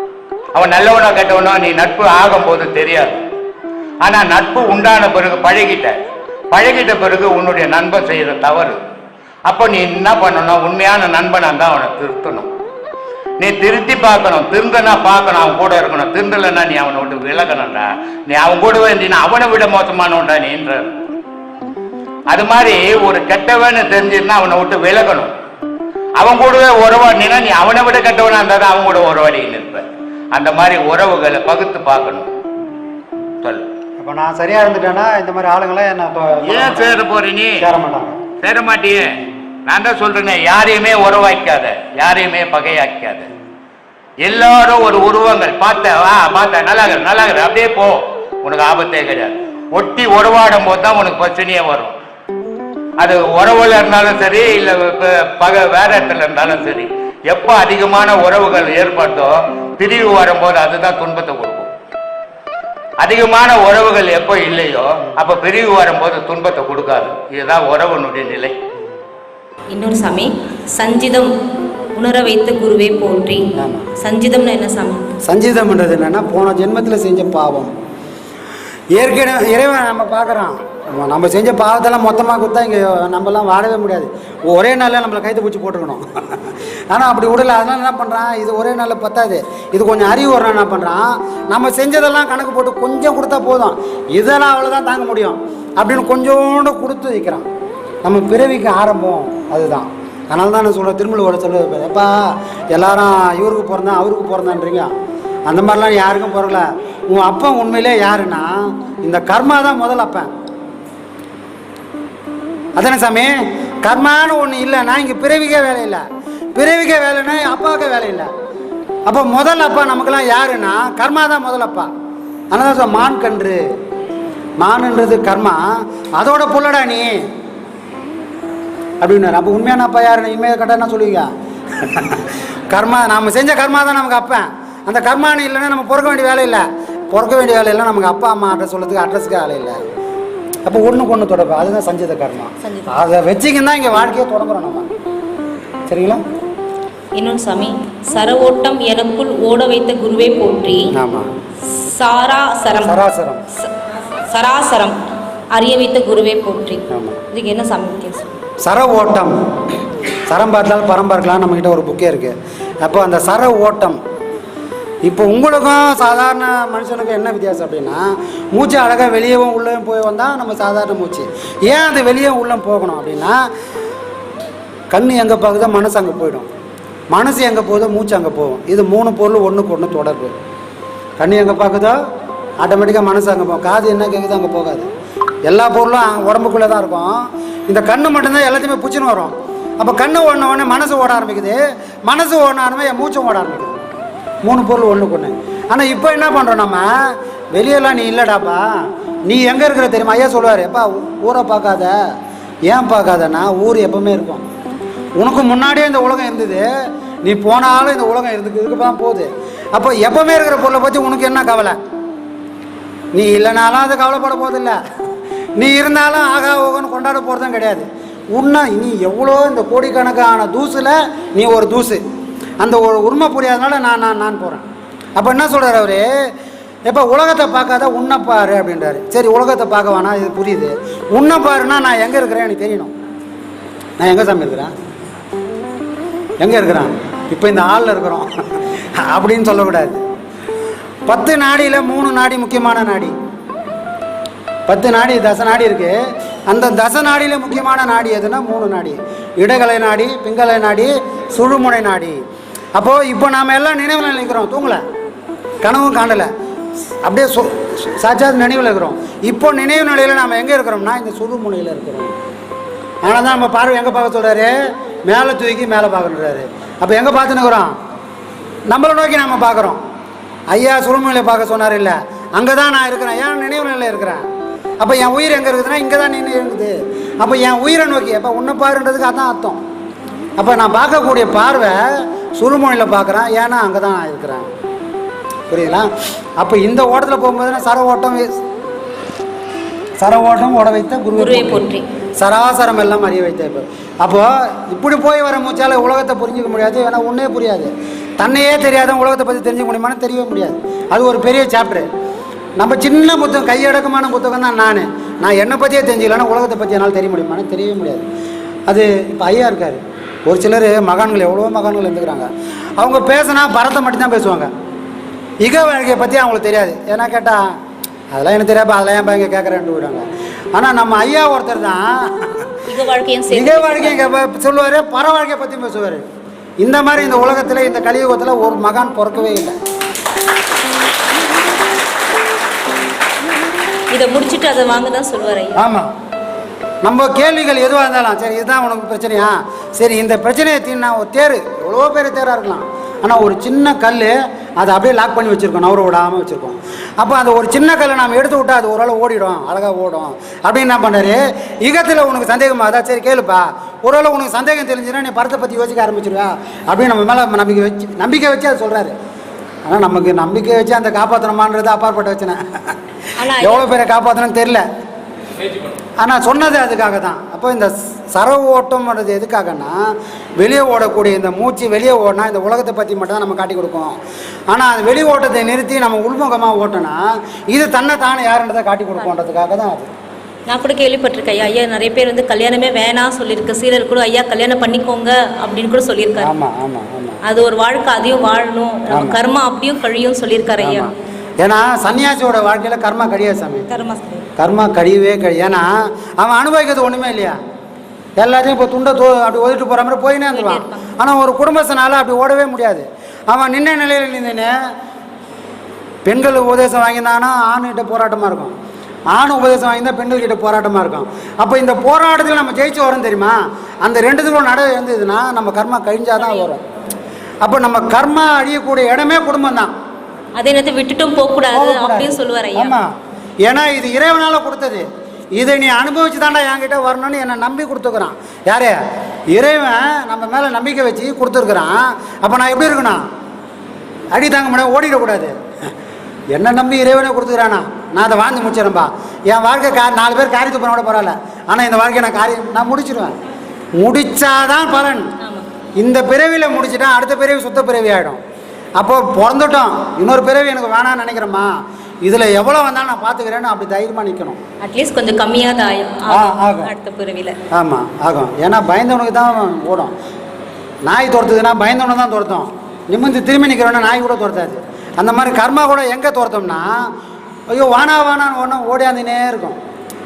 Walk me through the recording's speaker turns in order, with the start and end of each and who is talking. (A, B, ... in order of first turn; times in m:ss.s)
0:00.6-0:03.2 A
0:04.0-0:06.0 A
0:06.5-0:08.8 A
0:09.5-0:12.5 A
0:13.4-0:20.9 A
0:22.3-0:25.3 A
0:26.2-0:32.3 A
0:34.0-0:37.0 B
0:36.5-0:37.6 A
0:37.6-0:38.2 B
0:38.4-0:39.1 A
0:39.7-0:43.3 A
0:44.2-0:52.0 A
0:53.0-1:01.7 A
1:03.0-1:08.5 A
1:09.7-1:11.3 C
1:12.0-1:13.4 C
1:13.6-1:13.9 B
1:14.0-1:15.2 C
1:15.2-1:17.7 B
1:19.0-1:37.4 B
1:38.0-1:42.2 B
1:42.7-1:44.9 B
1:45.5-1:50.3 B
1:52.8-1:56.0 B
1:56.6-1:58.3 B
1:59.1-2:01.9 B
2:02.5-2:03.6 B
2:04.6-2:05.6 B
2:06.2-2:07.1 B
2:09.0-2:11.3 B
2:11.8-2:19.8 B
2:20.6-2:24.9 B
2:22.6-2:23.0 C
2:25.9-2:26.2 B
2:27.2-2:30.8 C
2:31.0-2:31.3 B
2:31.7-2:33.0 C
2:32.8-2:33.4 B
2:34.3-2:35.0 C
2:35.6-2:38.3 C
2:36.9-2:37.2 B
2:38.6-2:39.3 B
2:40.3-2:44.0 B
2:45.0-2:53.4 B
2:54.9-2:56.5 B
2:57.1-3:00.3 B
3:01.2-3:02.0 B
3:02.6-3:04.9 B
3:05.5-3:13.8 B
3:14.4-3:16.9 B
3:17.5-3:18.7 B
3:19.3-3:22.0 B
3:22.7-3:24.4 B
3:25.2-3:26.7 B
3:27.2-3:31.8 B
3:33.1-3:34.8 B
3:35.6-3:42.0 B
3:42.6-3:44.6 B
3:45.2-3:46.1 B
3:46.9-3:52.9 B
3:54.0-3:54.7 B
3:56.4-3:58.3 B
3:59.0-4:00.0 B
4:01.1-4:03.1 B
4:04.7-4:06.0 B
4:06.5-4:12.2 B
4:12.8-4:14.8 B
4:15.6-4:16.3 B
4:17.0-4:22.1 B
4:23.0-4:24.5 B
4:25.1-4:27.7 B
4:28.7-4:29.8 B
4:30.5-4:34.2 B
4:34.8-4:39.6 B
4:40.4-4:41.8 B
4:42.4-4:44.5 B
4:45.5-4:48.3 B
4:50.0-4:51.6 B
4:51.2-4:51.8 C
4:52.2-5:01.9 B
5:02.6-5:08.1 B
5:08.7-5:14.5 B
5:15.4-5:17.4 B
5:18.1-5:21.8 B
5:22.7-5:24.0 C
5:23.3-5:26.0 B
5:26.6-5:29.6 B
5:33.9-5:35.6 C
5:35.6-5:35.9 B
5:36.8-5:58.9 B
5:59.7-6:02.4 B
6:03.2-6:03.6 C
6:03.4-6:04.6 B
6:06.0-6:09.8 B
6:10.4-6:14.0 B
6:14.5-6:19.9 B
6:20.5-6:26.3 C
6:26.2-6:27.2 B
6:27.3-6:30.9 C
6:28.9-6:29.2 B
6:30.6-6:33.7 B
6:33.7-6:34.3 C
6:34.4-6:35.7 B
6:36.2-6:37.4 B
6:38.2-6:44.5 B
6:40.3-6:40.9 C
6:46.0-6:48.5 B
6:49.1-6:56.6 B
6:57.4-6:59.7 B
7:00.4-7:02.8 C
7:01.5-7:02.9 B
7:03.5-7:04.8 B
7:05.4-7:08.8 B
7:09.3-7:13.0 B
7:14.1-7:15.3 B
7:16.3-7:23.2 B
7:23.8-7:25.1 B
7:25.2-7:25.5 C
7:25.8-7:28.2 B
7:28.8-7:31.5 B
7:32.0-7:34.4 B
7:34.6-7:37.4 C
7:36.1-7:36.7 B
7:37.5-7:39.9 B
7:40.9-7:46.7 B
7:47.5-7:49.6 B